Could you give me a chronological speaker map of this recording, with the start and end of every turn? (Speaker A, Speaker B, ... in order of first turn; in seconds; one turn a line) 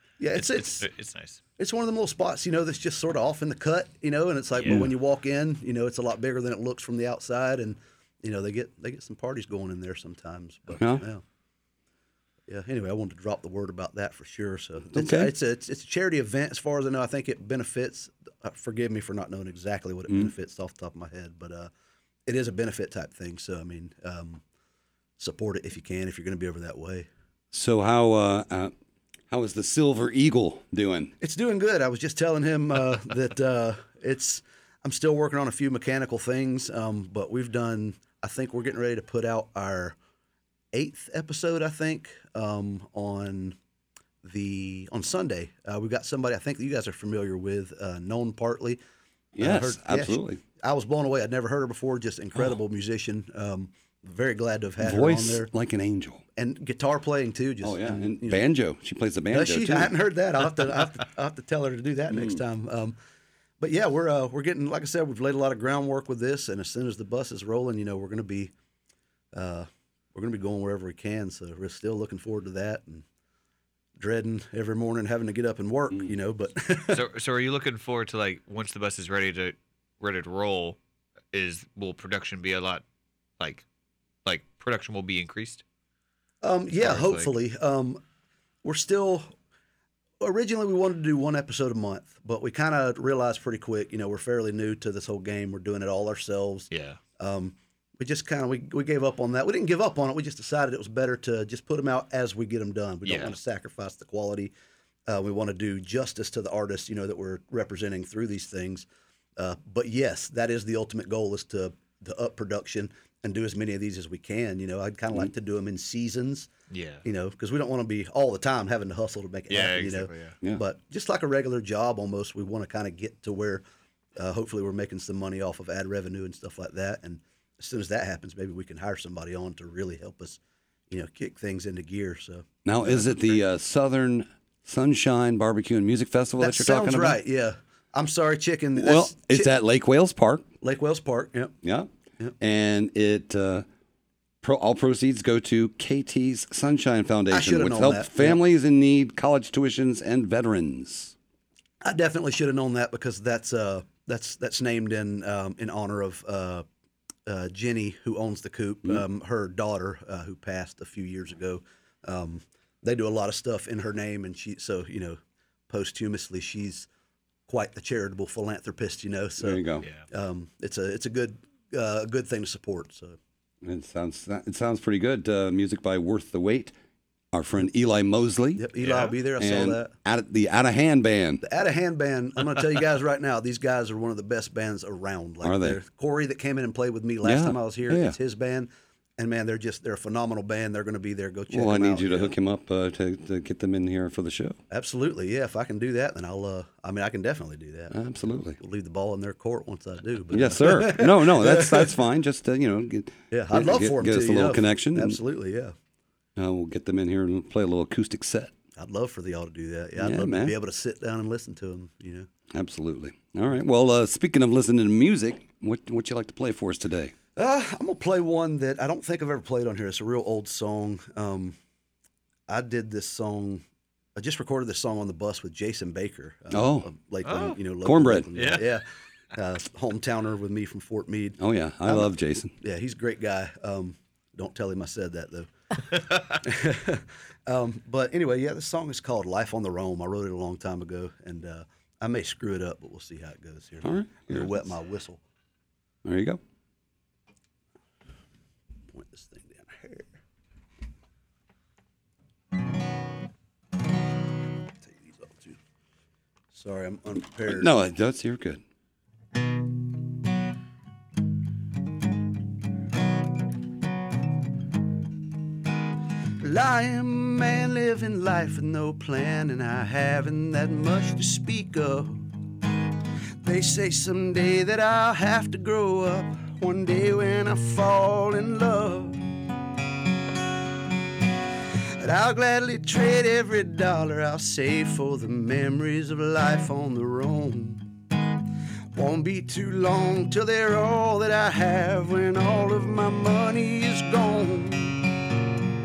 Speaker A: 0.2-0.9
Speaker B: 0.3-1.4
Speaker A: 1.6-11.2
Speaker B: 4.6-4.8
Speaker C: 10.8-11.0
Speaker A: 12.5-21.7
Speaker C: 14.9-15.3
Speaker A: 22.3-24.4
Speaker A: 25.2-27.1
Speaker C: 27.5-28.7
Speaker C: 29.3-31.1
Speaker A: 31.2-40.0
Speaker A: 40.7-43.6
Speaker A: 44.2-48.8
Speaker C: 49.3-50.4
Speaker A: 49.4-55.5
Speaker C: 54.8-56.2
Speaker A: 56.4-58.4
Speaker C: 57.6-59.9
Speaker A: 59.3-63.0
Speaker C: 62.1-62.4
Speaker A: 63.6-68.5
Speaker A: 69.3-73.0
Speaker A: 74.0-77.1
Speaker B: 76.9-80.8
Speaker B: 81.3-82.8
Speaker B: 83.4-83.6
Speaker B: 84.2-85.6
Speaker A: 86.4-88.0
Speaker B: 86.8-87.3
Speaker A: 88.6-89.3
Speaker A: 90.2-104.5
Speaker B: 96.7-97.0
Speaker B: 103.1-103.4
Speaker A: 105.1-116.5
Speaker B: 116.7-117.0
Speaker A: 117.0-123.6
Speaker B: 119.5-120.4
Speaker A: 124.2-133.4
Speaker C: 132.7-137.2
Speaker A: 136.4-139.5
Speaker C: 138.8-140.4
Speaker A: 140.6-141.5
Speaker C: 141.6-141.9
Speaker C: 142.4-143.7
Speaker C: 144.4-151.1
Speaker A: 147.3-148.4
Speaker A: 151.8-156.7
Speaker A: 157.2-165.2
Speaker A: 165.7-166.9
Speaker A: 167.5-173.2
Speaker C: 169.4-169.9
Speaker C: 173.6-176.7
Speaker C: 177.3-178.7
Speaker A: 178.6-179.9
Speaker B: 178.8-179.2
Speaker C: 179.4-181.4
Speaker A: 181.4-192.4
Speaker C: 185.4-185.8
Speaker C: 187.2-188.2
Speaker C: 191.5-194.6
Speaker A: 194.7-197.9
Speaker C: 197.9-198.6
Speaker A: 198.6-201.9
Speaker C: 200.3-205.2
Speaker A: 203.3-205.7
Speaker C: 206.4-208.5
Speaker A: 208.8-212.3
Speaker C: 210.0-210.5
Speaker C: 212.5-217.2
Speaker A: 217.4-221.6
Speaker A: 222.5-223.6
Speaker A: 224.2-245.2
Speaker C: 226.5-226.9
Speaker B: 227.2-227.6
Speaker C: 227.8-228.3
Speaker B: 228.3-228.7
Speaker C: 231.4-232.6
Speaker C: 243.8-244.7
Speaker C: 246.1-246.4
Speaker A: 248.9-250.2
Speaker A: 254.8-255.6
Speaker A: 256.5-257.7
Speaker C: 257.5-258.6
Speaker A: 266.4-272.3
Speaker A: 273.4-279.2
Speaker A: 282.0-287.9
Speaker A: 288.9-295.1